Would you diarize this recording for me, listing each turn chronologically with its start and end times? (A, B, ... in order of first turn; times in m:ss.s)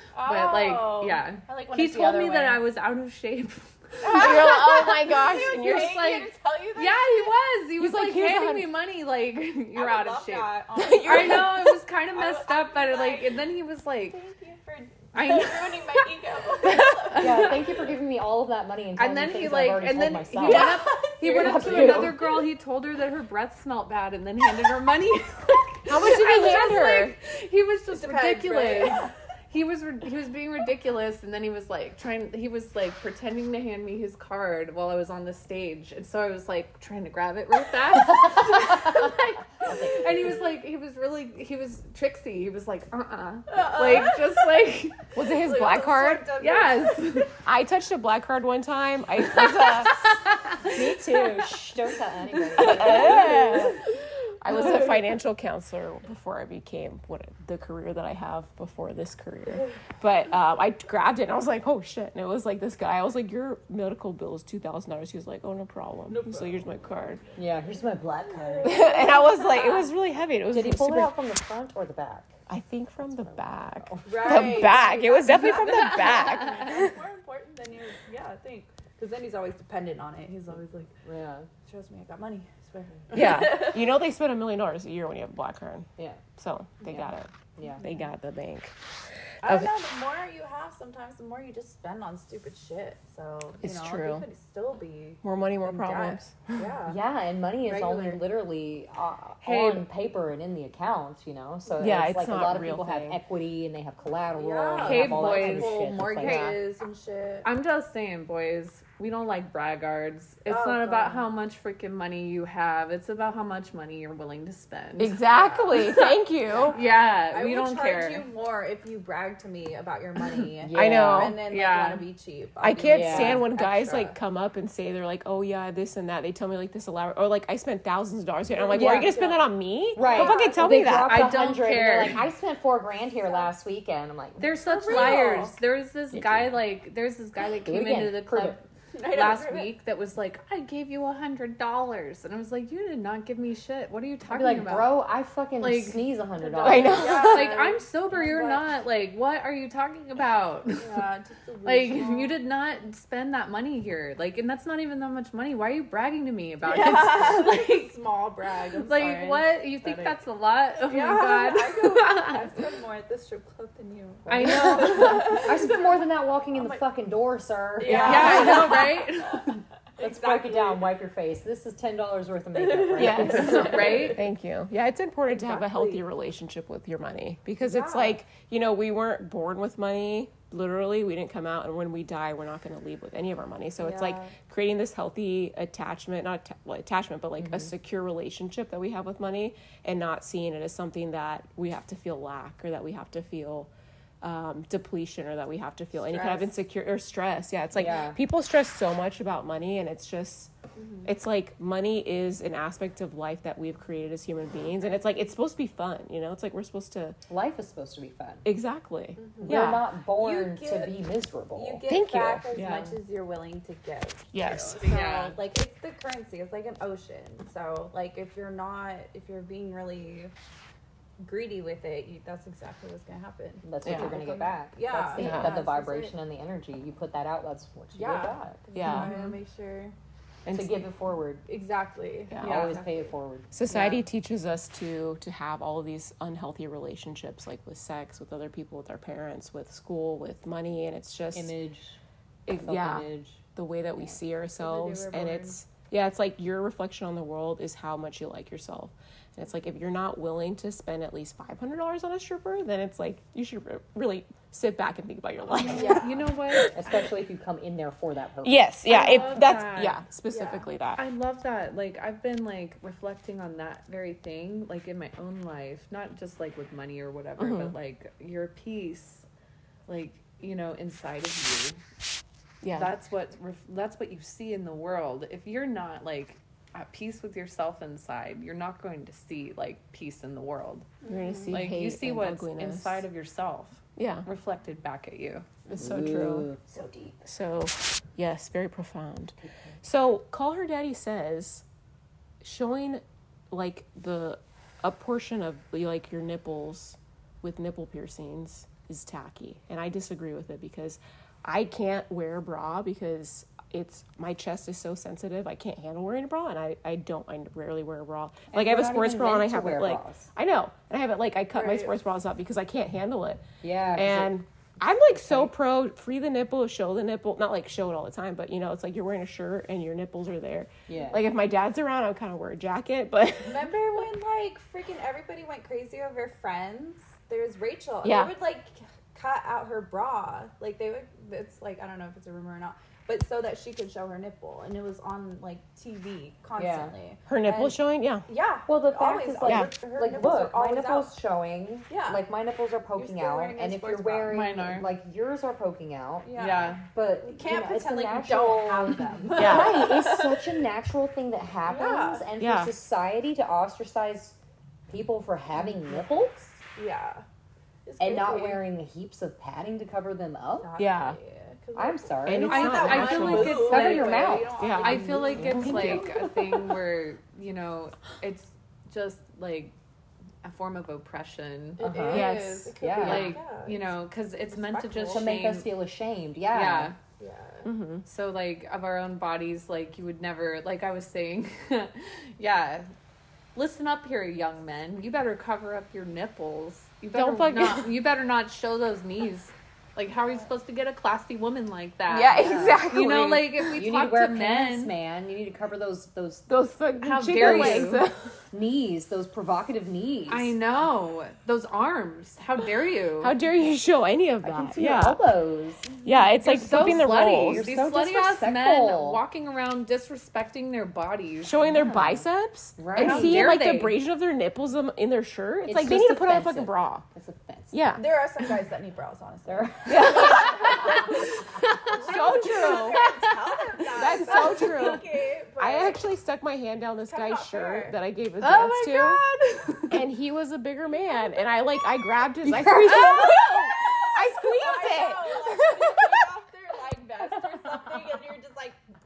0:00.1-0:02.6 A
0:00.2-0:04.5 B
0:04.0-0:07.4 A
0:04.0-0:06.1 C
0:05.7-0:14.2 B
0:07.8-0:08.7 C
0:09.7-0:13.5 A
0:10.8-0:11.7 C
0:14.1-0:17.6 A
0:15.1-0:16.0 B
0:16.6-0:17.6 B
0:17.1-0:22.1 D
0:19.0-0:45.0 B
0:20.4-0:22.4 A
0:21.4-0:22.1 C
0:25.9-0:27.1 C
0:27.9-0:29.1 A
0:39.6-0:40.1 D
0:43.5-0:44.4 A
0:45.1-0:46.3 C
0:45.2-0:47.2 A
0:46.4-0:47.3 B
0:47.4-0:50.1 C
0:49.6-0:51.4 B
0:50.7-0:53.6 D
0:52.6-0:53.8 C
0:52.6-0:53.4 A
0:54.4-1:07.2 C
1:06.1-1:09.9 A
1:07.4-1:09.0 D
1:08.6-1:11.1 C
1:10.5-1:12.4 D
1:12.5-1:17.0 C
1:13.1-1:14.6 D
1:14.0-1:20.6 A
1:15.3-1:16.2 B
1:20.3-1:20.9 B
1:21.0-1:21.5 D
1:21.7-1:23.8 A
1:23.1-1:28.7 C
1:27.6-1:27.8 D
1:29.4-1:37.0 A
1:29.4-1:29.7 C
1:33.6-1:34.2 C
1:35.2-1:36.6 C
1:36.9-1:46.6 D
1:37.6-1:38.3 A
1:39.4-1:39.9 B
1:41.8-1:43.2 C
1:44.4-1:47.5 A
1:44.8-1:45.8 B
1:46.2-1:46.6 C
1:47.4-1:55.2 B
1:50.5-1:51.2 A
1:55.0-1:56.8 C
1:55.2-1:56.0 A
1:55.7-1:56.1 B
1:56.6-2:04.2 A
1:56.7-1:58.2 B
2:00.6-2:01.4 D
2:00.7-2:01.4 C
2:01.4-2:02.0 B
2:02.6-2:11.3 C
2:02.9-2:03.5 D
2:08.5-2:10.8 A
2:08.7-2:09.2 D
2:09.9-2:15.4 D
2:10.9-2:12.2 B
2:13.2-2:13.5 A
2:14.4-2:24.9 B
2:14.6-2:15.6 A
2:16.1-2:16.6 D
2:17.6-2:18.6 D
2:18.9-2:19.7 A
2:24.3-2:27.1 D
2:25.6-2:30.9 B
2:26.6-2:28.7 A
2:26.6-2:27.6 C
2:30.7-2:32.4 A
2:31.6-2:37.9 B
2:36.6-2:40.2 A
2:38.8-2:42.4 B
2:40.8-2:46.9 A
2:44.3-2:45.6 B
2:44.3-2:48.8 D
2:47.8-2:50.9 A
2:47.9-2:49.6 B
2:47.9-2:48.4 C
2:50.0-2:54.1 D
2:52.5-2:54.2 A
2:53.0-3:13.7 C
2:53.2-2:54.2 B
2:55.3-2:56.0 D
2:57.6-2:58.2 A
3:03.8-3:04.3 A
3:14.2-3:20.5 C
3:16.0-3:16.5 A
3:17.7-3:18.2 D
3:20.8-3:21.1 A
3:21.0-3:27.2 C
3:27.3-3:28.4 D
3:28.4-3:29.9 C
3:29.2-3:40.3 A
3:29.4-3:31.8 D
3:31.8-3:32.5 C
3:32.5-3:33.0 B
3:34.3-3:35.0 C
3:34.8-3:35.3 B
3:41.2-3:46.2 A
3:43.6-3:48.6 D
3:43.8-3:44.2 C
3:45.2-3:45.5 C
3:47.9-3:49.9 A
3:48.7-3:49.3 C
3:48.9-3:49.2 B
3:50.4-3:50.8 C
3:50.4-3:51.4 D
3:51.4-3:53.1 A
3:52.3-3:52.7 C
3:52.4-3:53.5 D
3:53.5-4:01.5 C
4:01.3-4:02.0 D
4:02.5-4:16.7 C
4:02.6-4:03.4 D
4:04.6-4:05.6 A
4:15.6-4:16.2 A
4:15.8-4:16.8 B
4:16.7-4:19.4 D
4:18.4-4:21.0 C
4:18.9-4:20.0 B
4:20.3-4:20.6 A
4:21.0-4:29.2 B
4:27.4-4:27.7 C
4:29.9-4:31.8 B
4:32.6-4:32.9 C
4:32.7-4:41.0 B
4:41.0-4:43.0 C
4:41.5-4:45.4 B
4:44.0-4:44.3 C
4:45.7-4:46.5 C
4:45.8-4:47.2 D
4:47.2-4:51.6 C
4:49.4-4:49.7 D
4:52.4-5:23.7 C
5:08.5-5:10.3 D
5:11.5-5:11.9 A
5:13.6-5:14.3 D
5:15.1-5:15.5 D
5:20.9-5:21.2 D
5:23.4-5:41.1 A
5:28.0-5:28.3 C
5:36.6-5:36.9 D
5:37.3-5:38.2 C
5:38.7-5:54.4 D
5:41.9-5:42.2 A
5:42.9-5:44.4 A
5:44.2-5:44.9 B
5:46.2-5:50.5 A
5:46.4-5:46.8 B
5:49.3-5:49.8 C
5:51.6-5:52.3 A
5:52.4-5:52.7 C
5:54.9-5:56.6 D
5:56.8-5:57.2 A
5:57.8-5:58.7 A
5:58.0-6:00.7 D
6:00.6-6:06.3 A
6:00.8-6:01.2 C
6:01.7-6:06.1 D
6:02.2-6:04.0 C
6:02.5-6:09.7 B
6:04.6-6:06.0 C
6:10.4-6:12.2 B
6:11.8-6:15.4 A
6:11.8-6:12.3 D
6:12.1-6:13.1 C
6:12.8-6:13.4 D
6:13.0-6:15.7 B
6:15.1-6:16.9 D
6:16.5-6:17.0 B
6:17.2-6:17.7 A
6:17.6-6:18.0 C
6:18.0-6:22.9 B
6:23.5-6:34.9 B
6:27.1-6:27.9 C
6:32.1-6:33.7 C
6:32.3-6:32.9 D
6:33.7-6:36.5 D
6:36.5-6:38.3 C
6:37.0-6:38.1 B
6:37.3-6:40.5 D
6:40.3-6:43.3 B
6:43.2-6:45.2 C
6:44.4-6:45.9 D
6:46.0-6:47.7 C
6:46.4-6:51.7 B
6:46.8-6:49.2 D
6:51.4-6:57.0 C
6:51.7-6:52.2 D
6:52.8-6:53.6 D
6:52.9-6:54.0 B
6:55.6-6:58.0 D
6:57.7-6:58.1 C
6:58.0-7:06.0 A
6:59.4-7:01.0 D
6:59.8-7:01.1 C
7:01.7-7:02.0 B
7:01.9-7:03.1 C
7:02.5-7:03.3 B
7:03.9-7:05.0 C
7:05.6-7:09.2 C
7:07.1-7:08.0 A
7:08.4-7:10.0 B
7:09.9-7:16.1 C
7:12.4-7:13.4 D
7:13.2-7:18.8 A